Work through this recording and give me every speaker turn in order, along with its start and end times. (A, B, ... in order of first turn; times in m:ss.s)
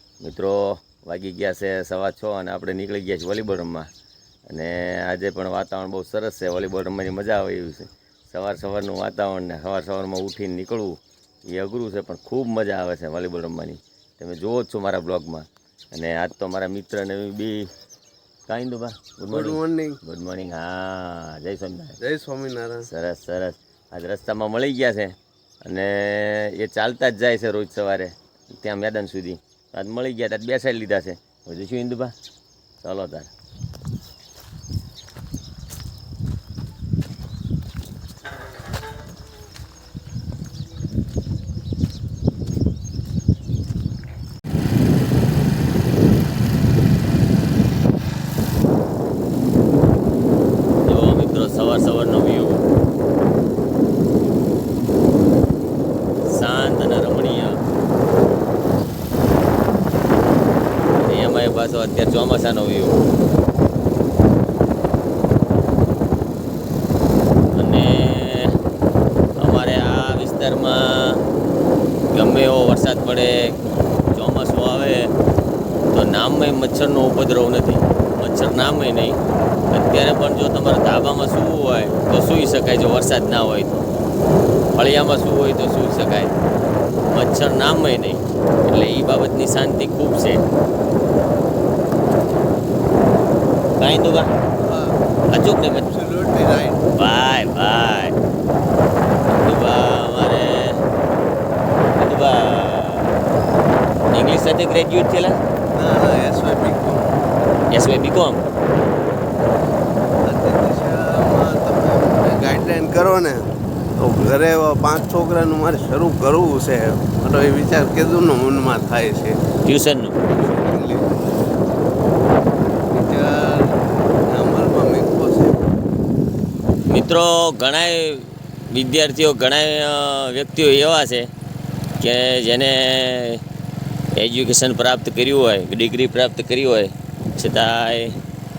0:00.2-0:03.9 A
0:04.5-0:17.7 A
0:18.5-0:22.0 A
0:19.3-0:20.0 B
0:22.0-0:22.9 B
0:22.8-0:25.1 A
0:25.6-0:32.1 A
0:32.8-0:33.3 A
0:50.8-0:52.6 A
0:56.2-0:57.6 A
1:01.0-1:03.0 A
1:07.5-1:08.6 A
1:09.4-1:11.2 A
1:12.1-1:13.6 A
1:14.1-1:15.1 A
1:15.9-1:19.2 A
1:19.7-1:23.9 A
1:24.7-1:26.4 A
1:27.1-1:30.4 A
1:33.8-1:34.3 A
1:34.6-1:35.0 B
1:35.3-1:35.8 A
1:35.6-1:36.9 B
1:36.9-1:38.2 A
1:39.3-1:40.8 A
1:41.9-1:43.2 A
1:44.1-1:45.4 A
1:45.7-1:47.1 B
1:47.7-1:48.4 A
1:50.2-1:59.4 B
1:59.6-2:00.2 A
2:00.4-2:01.2 B
2:02.9-2:05.6 B
2:06.9-2:11.3 A
2:12.0-2:13.4 A
2:14.1-2:18.2 A